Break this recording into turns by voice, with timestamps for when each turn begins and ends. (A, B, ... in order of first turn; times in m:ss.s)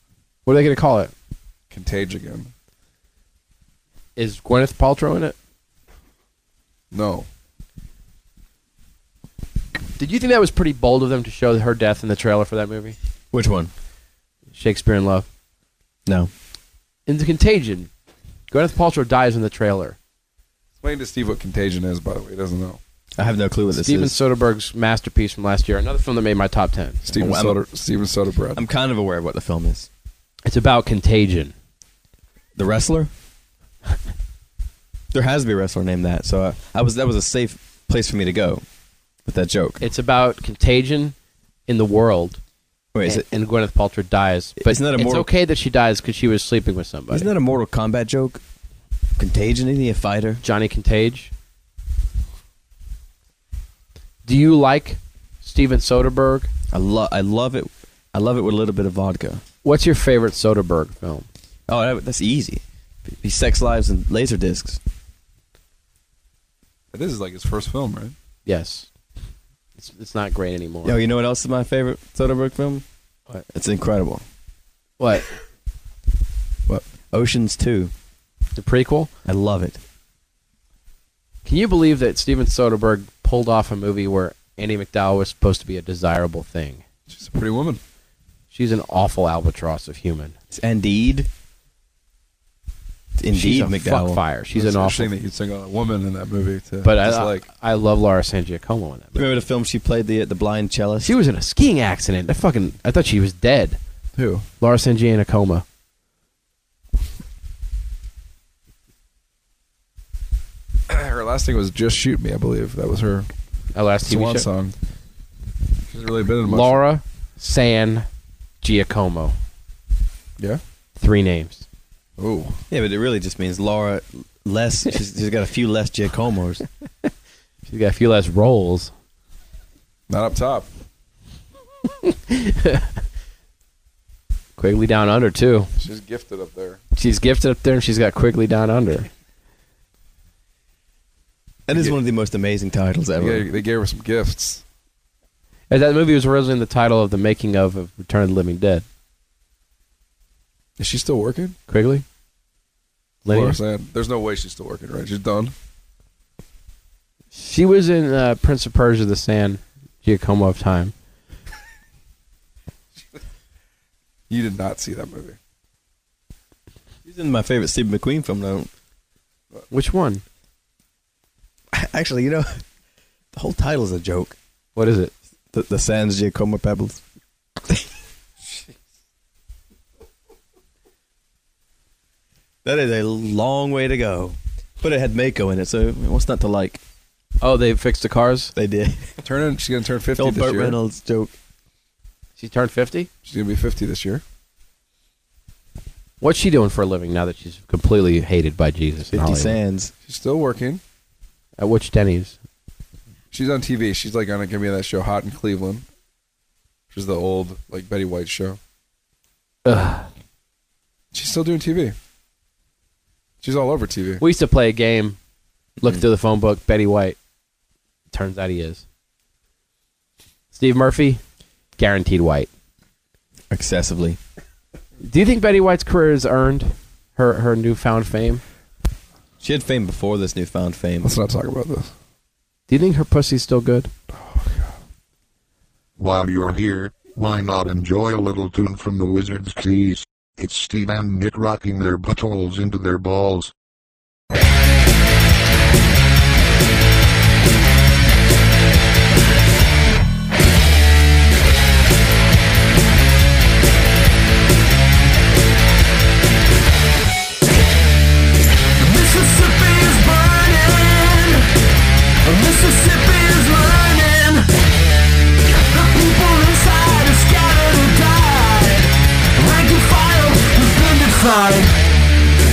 0:00.4-0:01.1 A
0:01.7-0:02.5 B
0:04.2-0:05.4 A
0:06.9-0:07.3 B
0:10.0-0:13.0 A
0:13.3-0:13.7 C
0:14.5-0:15.2 A
0:16.0-0:16.3 C
0:17.1-0:17.9 A
0:18.5-0:20.0 A
0:20.8-0:22.8 B
0:23.2-0:24.2 C
0:23.7-0:27.0 A
0:27.1-0:27.6 C
0:27.1-0:28.6 B
0:28.6-0:29.9 C
0:30.4-0:31.5 A
0:32.6-0:33.1 C
0:35.1-0:38.6 C
0:39.2-0:39.8 C
0:39.8-0:41.1 A
0:41.7-0:42.4 A
0:42.9-0:43.2 C
0:43.0-0:47.3 A
0:44.6-0:45.3 C
0:47.1-0:48.4 C
0:49.2-0:50.4 C
0:50.4-0:51.3 A
0:54.2-0:56.5 A
0:56.7-0:59.4 C
0:59.6-1:01.3 A
1:01.7-1:02.6 C
1:03.2-1:04.8 C
1:06.9-1:08.1 B
1:08.4-1:08.9 A
1:09.8-1:11.0 A
1:10.8-1:12.8 C
1:13.5-1:14.2 C
1:15.0-1:15.3 A
1:17.1-1:17.9 C
1:18.6-1:19.1 A
1:19.2-1:19.8 C
1:21.4-1:26.8 A
1:27.1-1:27.8 B
1:28.5-1:30.3 A
1:30.5-1:31.3 C
1:33.2-1:34.2 C
1:33.3-1:35.1 A
1:34.5-1:37.5 B
1:36.8-1:39.2 A
1:39.1-1:41.1 C
1:41.0-1:43.8 A
1:44.2-1:44.4 B
1:44.6-1:45.6 A
1:50.9-1:53.3 B
1:53.7-1:54.5 A
1:54.0-1:54.7 B
1:55.9-1:56.8 B
1:56.4-1:58.1 A
1:58.6-1:59.3 A
2:01.0-2:01.6 A
2:02.2-2:02.6 B
2:02.7-2:06.6 C
2:07.7-2:08.9 A
2:10.1-2:10.7 B
2:11.8-2:12.9 A
2:14.6-2:15.7 A
2:15.8-2:16.8 B
2:17.0-2:19.1 A
2:21.7-2:23.5 C
2:23.2-2:24.6 B
2:25.7-2:28.8 A
2:30.8-2:31.6 B
2:31.7-2:32.0 A
2:33.2-2:33.6 A
2:33.2-2:35.5 B
2:37.3-2:40.9 A
2:44.3-2:45.4 B
2:47.0-2:48.7 C
2:49.7-2:50.2 A
2:51.7-2:52.6 C
2:53.3-2:54.3 C
2:54.8-2:55.1 A
2:55.5-2:57.0 C
3:02.6-3:06.8 C
3:07.4-3:08.5 A
3:08.5-3:09.2 C
3:09.2-3:10.8 B
3:10.2-3:11.3 C
3:12.4-3:13.1 A
3:13.2-3:14.2 B
3:16.2-3:19.6 A
3:19.1-3:19.9 C
3:20.0-3:20.8 B
3:21.6-3:22.4 A
3:23.3-3:25.8 B
3:26.9-3:28.6 B
3:29.6-3:30.1 A
3:31.1-3:31.9 B
3:33.4-3:34.2 B
3:34.2-3:35.2 A
3:35.8-3:37.2 A
3:38.1-3:38.8 A
3:40.5-3:41.2 A
3:41.8-3:42.5 A
3:43.5-3:44.2 C
3:45.0-3:48.4 A
3:49.4-3:51.1 C
3:51.0-3:51.9 B
3:52.7-3:53.9 A
3:54.1-3:54.7 B
3:56.0-4:03.5 D
4:18.8-4:21.5 E
4:22.2-4:24.5 E
4:25.5-4:31.8 E